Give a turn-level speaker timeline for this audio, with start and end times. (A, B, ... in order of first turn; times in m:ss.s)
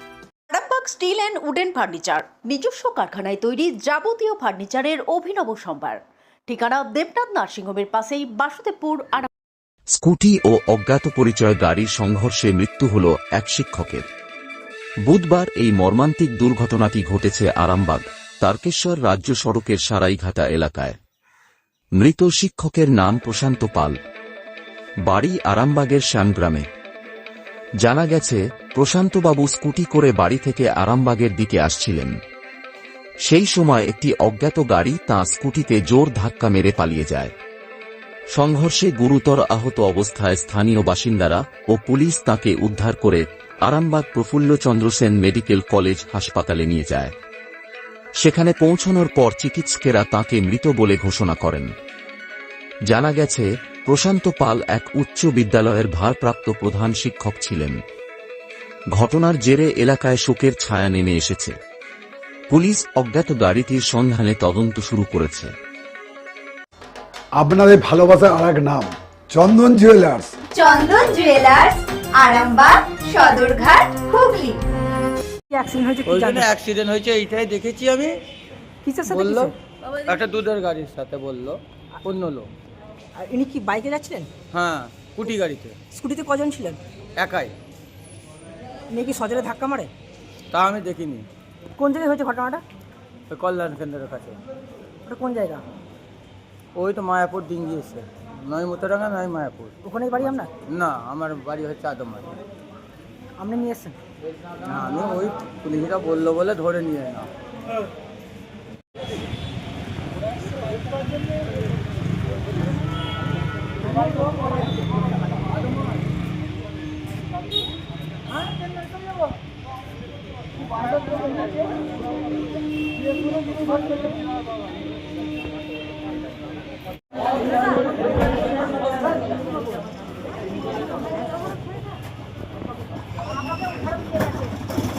0:00.5-0:09.3 A
0:09.9-0:14.1 B
0:15.1-0:21.0 B
0:22.0-0:24.0 B
0:25.1-0:26.7 B
0:27.8-0:32.1 B
0:33.3-0:37.3 B
0:38.3-0:47.1 B
0:48.2-0:51.7 B
0:52.9-0:57.8 B
0:59.0-1:01.5 B
1:02.5-1:05.5 B
1:07.4-1:10.3 C
1:10.6-1:14.6 D
1:15.5-1:16.6 E
1:16.1-1:18.1 F
1:18.8-1:19.5 E
1:19.1-1:19.5 F
1:20.1-1:22.5 F
1:23.2-1:24.3 E
1:24.5-1:25.8 F
1:25.9-1:26.8 E
1:27.2-1:27.5 F
1:28.9-1:29.9 E
1:30.5-1:31.3 F
1:31.8-1:32.6 E
1:33.3-1:34.4 F
1:35.1-1:35.6 E
1:36.8-1:42.3 F
1:39.8-1:40.5 E
1:43.4-1:44.0 E
1:44.6-1:47.3 F